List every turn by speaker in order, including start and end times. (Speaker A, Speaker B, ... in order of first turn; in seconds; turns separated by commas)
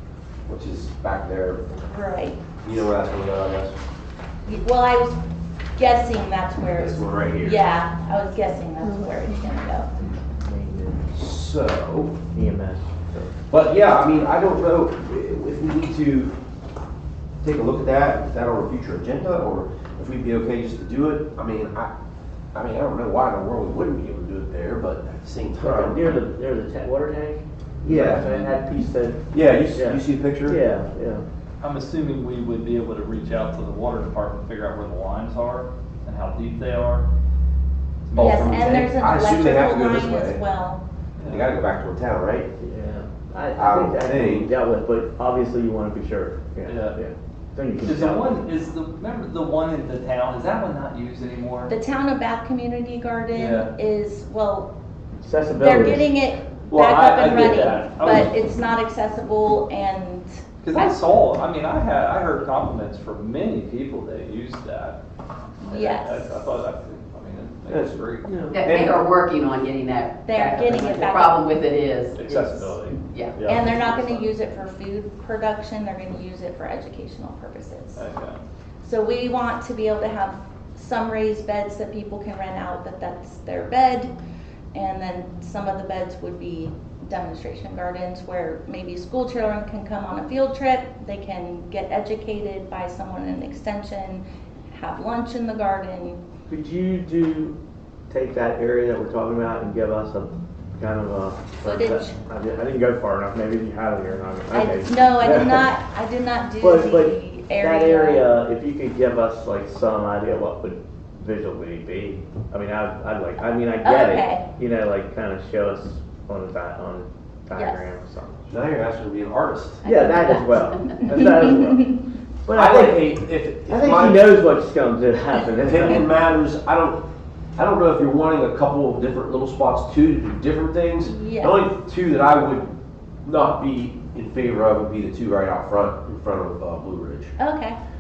Speaker A: 0.5-1.6, Speaker B: 1.7-2.4, Speaker A: 2.6-3.8, Speaker B: 4.5-5.2, Speaker B: 5.8-9.9, Speaker A: 6.8-7.6, Speaker C: 10.2-11.1, Speaker A: 11.1-12.2, Speaker C: 12.3-13.3, Speaker A: 13.5-16.3, Speaker A: 17.4-21.9, Speaker A: 22.5-26.2, Speaker C: 25.6-31.2, Speaker A: 27.8-28.5, Speaker A: 29.3-30.6, Speaker D: 31.6-37.1, Speaker D: 38.1-38.9, Speaker A: 38.2-40.4, Speaker B: 38.2-40.8, Speaker D: 41.2-41.6, Speaker A: 41.3-42.5, Speaker C: 42.6-48.4, Speaker A: 43.6-44.5, Speaker D: 46.7-47.0, Speaker D: 47.8-51.7, Speaker B: 51.7-54.7, Speaker D: 53.3-53.7, Speaker C: 55.2-56.1, Speaker B: 55.6-60.9, Speaker D: 56.7-58.4, Speaker D: 60.6-65.0, Speaker B: 65.6-66.3, Speaker D: 65.7-68.3, Speaker C: 67.7-68.7, Speaker E: 68.5-73.4, Speaker A: 68.6-69.0, Speaker B: 70.2-71.4, Speaker D: 72.2-74.3, Speaker B: 73.5-78.0, Speaker D: 78.0-78.4, Speaker B: 78.8-84.1, Speaker B: 84.7-96.2, Speaker C: 96.5-97.6, Speaker C: 98.1-105.6, Speaker B: 101.6-102.2, Speaker B: 104.5-108.3, Speaker C: 106.6-118.5, Speaker B: 113.8-114.5, Speaker B: 117.5-117.9, Speaker A: 118.5-119.8, Speaker C: 119.8-121.9, Speaker B: 119.8-122.0, Speaker C: 122.5-123.1, Speaker A: 122.5-124.3, Speaker C: 123.7-126.2, Speaker A: 125.6-127.0, Speaker A: 127.6-132.7, Speaker B: 131.0-131.7, Speaker A: 133.2-137.3, Speaker B: 137.4-137.8